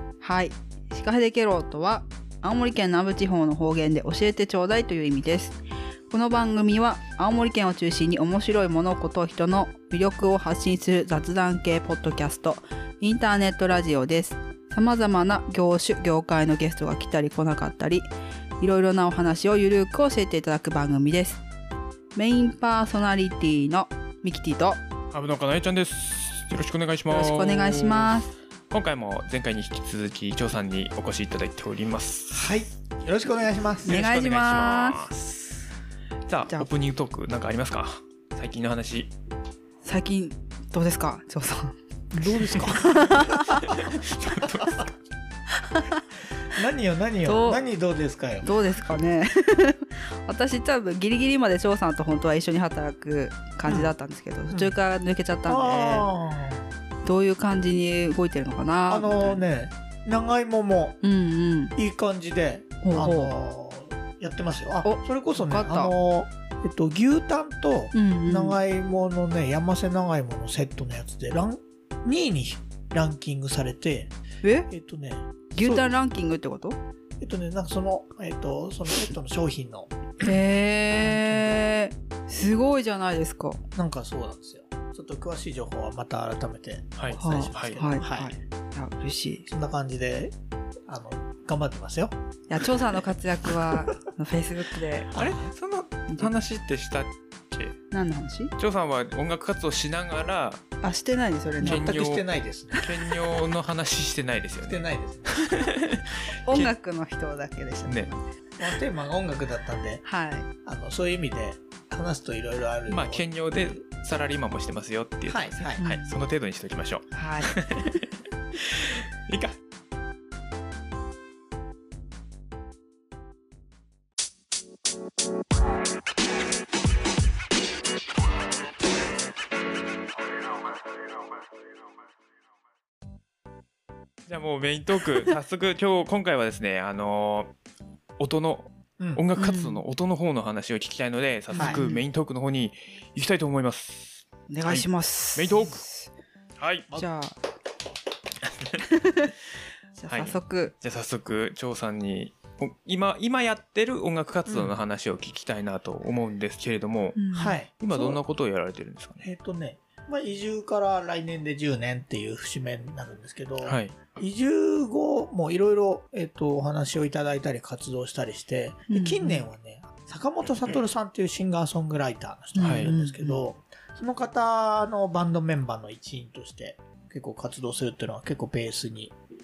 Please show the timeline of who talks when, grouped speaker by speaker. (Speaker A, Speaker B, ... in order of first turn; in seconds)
Speaker A: 0.2-5.6, 6.1-18.1, 18.6-21.4, 22.1-24.8, 27.1-28.3, 33.9-35.1, 39.8-41.8, 42.3-43.9, 45.6-46.0, 47.2-47.6, 48.4-56.1, 57.0-59.4, 61.0-61.8, 62.8-63.3, 64.8-66.0, 67.9-68.6, 74.4-74.7, 75.5-76.8, 80.2-83.6, 87.2-89.5, 92.5-95.1, 96.1-96.3, 97.9-98.5, 100.8-101.9, 106.5-108.3, 110.0-110.5, 115.8-116.1, 117.1-118.0, 139.4-139.8, 141.5-142.0, 144.5-146.1, 146.9-147.4, 148.8-149.3, 149.9-150.7, 157.2-157.6, 168.9-169.5, 172.6-173.4
Speaker B: 25.1-32.4, 33.9-35.7, 36.3-39.1, 43.7-44.9, 87.0-87.8, 95.1-97.8, 98.6-100.6, 101.6-102.2, 102.8-106.7, 112.9-118.0, 118.6-119.5, 134.3-137.5, 138.2-145.8, 146.6-146.9, 148.4-148.8, 150.1-157.2, 157.8-159.3, 163.6-163.9, 172.6-172.9
Speaker C: 32.3-34.0, 42.1-43.9, 44.5-44.8, 46.5-48.5, 53.7-53.9, 55.5-56.7, 58.9-61.0, 61.8-74.1, 74.7-75.9, 77.2-79.9, 81.0-81.6, 83.8-88.4, 89.5-90.3, 90.9-92.2, 95.1-95.5, 101.6-102.9, 104.6-105.4, 108.6-110.0, 110.7-113.8, 115.3-115.8, 139.0-139.2, 141.5-141.8, 154.5-154.8, 157.3-158.2, 159.2-179.1